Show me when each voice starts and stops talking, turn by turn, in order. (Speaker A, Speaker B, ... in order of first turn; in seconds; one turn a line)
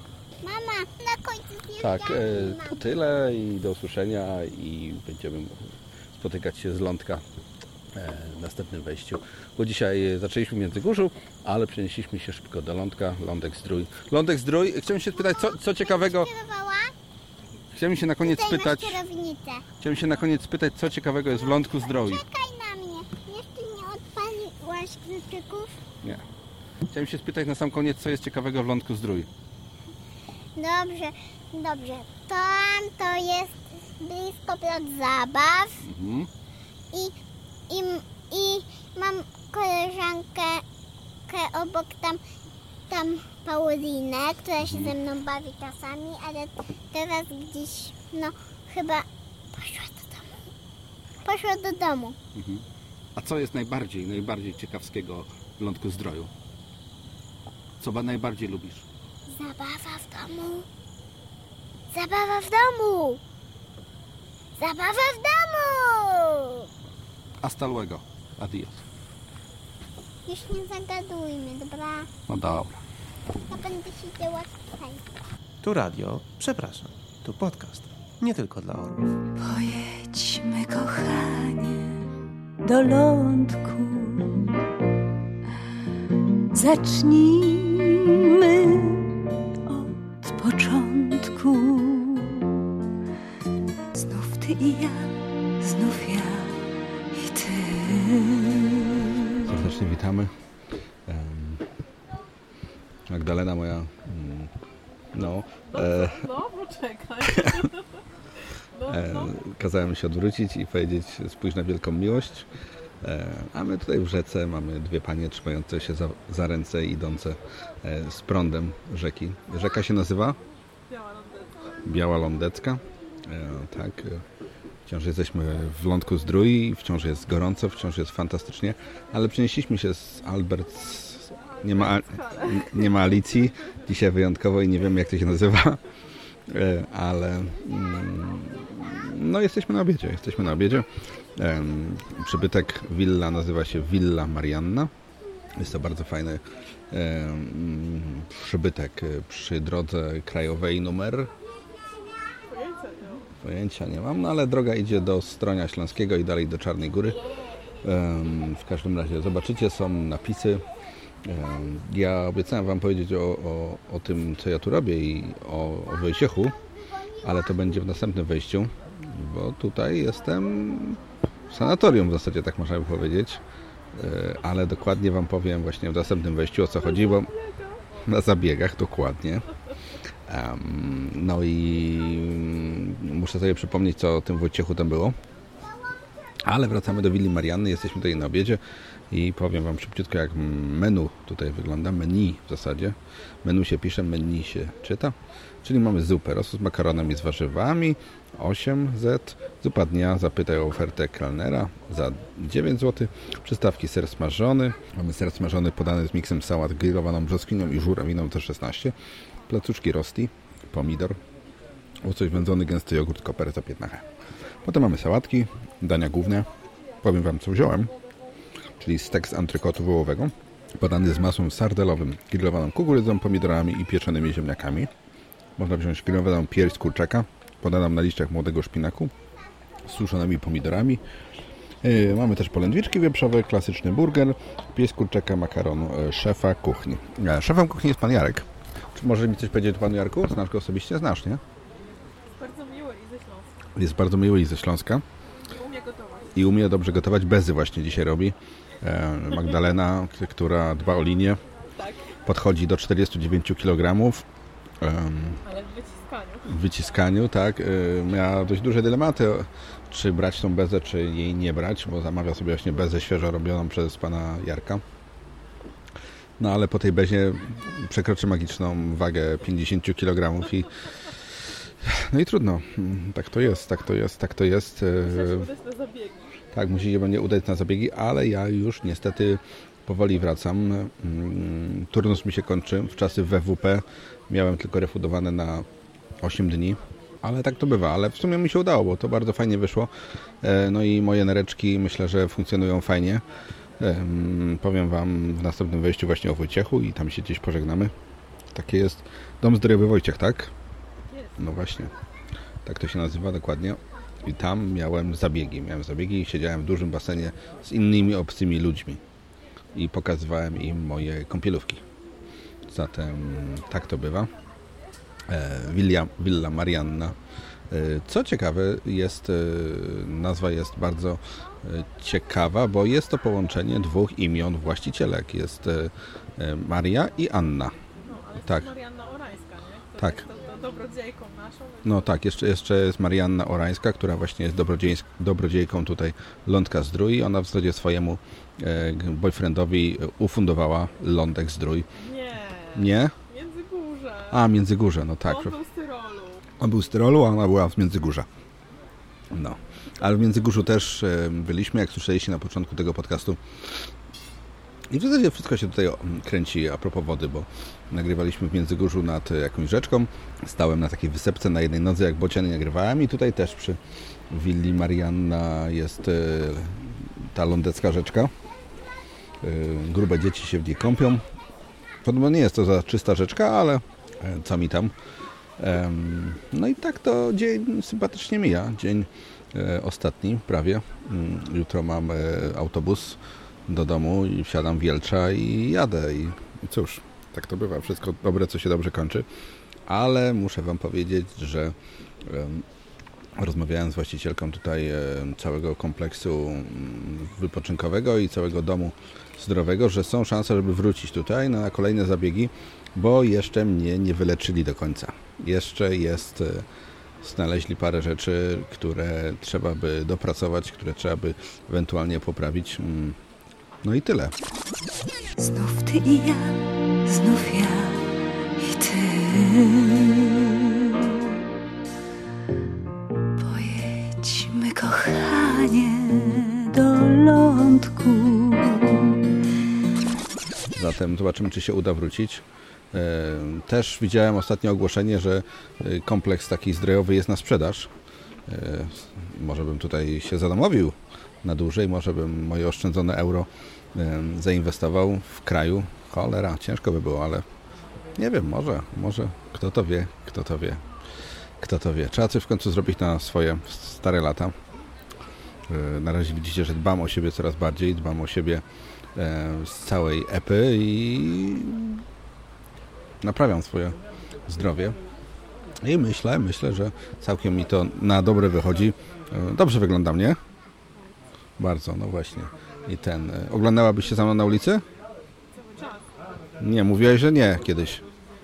Speaker A: 0.4-2.8
Speaker B: 1.8-7.2
Speaker B: 7.9-16.3
Speaker A: 15.2-16.9
Speaker B: 17.7-19.0
Speaker A: 18.2-19.6
Speaker B: 19.8-22.2
Speaker A: 21.5-25.8
Speaker B: 26.9-29.3
Speaker A: 30.6-35.9
Speaker B: 35.8-36.3
Speaker A: 37.7-40.6
Speaker A: 41.3-42.2
Speaker A: 42.9-50.4
Speaker B: 44.6-44.9
Speaker A: 51.2-52.2
Speaker B: 52.3-56.3
Speaker B: 57.8-58.9
Speaker A: 59.3-60.7
Speaker A: 61.9-63.2
Speaker A: 64.6-66.7
Speaker B: 67.4-68.9
Speaker A: 70.3-72.1
Speaker B: 72.3-72.8
Speaker A: 73.5-75.1
Speaker C: 75.6-79.1
Speaker D: 79.4-82.1
Speaker D: 82.6-84.5
Speaker D: 86.5-89.1
Speaker D: 89.7-92.5
Speaker D: 93.9-96.6
Speaker D: 97.1-99.5
Speaker B: 99.5-100.3
Speaker B: 101.1-101.7
Speaker B: 103.1-104.5
Speaker B: 105.1-106.3
Speaker E: 105.6-107.8
Speaker B: 107.3-107.6
Speaker E: 108.8-109.3
Speaker B: 108.9-112.5
Speaker B: 113.0-120.4
Speaker E: 120.9-121.8
Speaker B: 121.8-124.2
Speaker B: 124.9-135.8
Speaker E: 131.8-132.8
Speaker B: 136.5-144.9
Speaker B: 145.6-151.3
Speaker E: 152.5-153.3
Speaker B: 153.4-157.2
Speaker B: 157.8-160.6
Speaker B: 161.2-166.6
Speaker B: 167.2-171.0
Speaker B: 171.5-173.4
Speaker B: 173.9-177.3
Speaker E: 177.5-177.7
Speaker B: 178.0-179.4
Speaker B: 180.3-185.2
Speaker B: 186.4-208.9
Speaker B: 209.5-211.2
Speaker B: 212.0-214.1
Speaker B: 214.6-216.5
Speaker B: 217.0-217.9
Speaker B: 218.8-224.9
Speaker B: 225.6-229.1
Speaker B: 229.8-231.0
Speaker B: 231.8-241.4
Speaker E: 242.3-243.5
Speaker B: 243.8-245.1
Speaker E: 245.5-246.4
Speaker B: 246.3-251.4
Speaker E: 251.7-252.1
Speaker B: 252.3-254.2
Speaker B: 254.8-255.4
Speaker E: 255.4-256.5
Speaker B: 256.4-264.8
Speaker B: 266.4-270.7
Speaker B: 271.8-275.5
Speaker E: 275.0-276.4
Speaker B: 276.5-285.7
Speaker B: 286.2-289.9
Speaker B: 290.4-293.2
Speaker B: 293.8-297.9
Speaker B: 298.5-300.5
Speaker B: 301.4-301.9
Speaker B: 302.6-309.0
Speaker B: 309.7-311.8
Speaker B: 312.7-314.3
Speaker B: 315.3-317.2
Speaker B: 317.7-327.7
Speaker E: 328.0-331.9
Speaker B: 328.4-328.7
Speaker B: 330.0-330.3
Speaker B: 331.8-341.9
Speaker E: 342.0-344.4
Speaker B: 342.7-343.1
Speaker B: 344.3-345.6
Speaker E: 345.2-346.4
Speaker B: 346.6-348.3
Speaker B: 349.3-353.4
Speaker B: 354.9-363.8
Speaker B: 364.3-368.3
Speaker B: 369.4-371.2
Speaker B: 372.0-374.9
Speaker B: 375.6-389.3
Speaker B: 389.9-392.6
Speaker B: 393.4-406.7
Speaker B: 407.2-413.2
Speaker B: 413.8-414.4
Speaker D: 415.4-421.1
Speaker D: 423.4-429.1
Speaker B: 430.7-437.9
Speaker B: 438.5-447.4
Speaker B: 448.2-450.8
Speaker B: 451.6-454.5
Speaker B: 455.7-458.6
Speaker B: 459.1-462.0
Speaker B: 463.2-465.0
Speaker B: 465.8-470.4
Speaker B: 471.6-474.8
Speaker E: 475.5-476.1
Speaker B: 476.6-478.0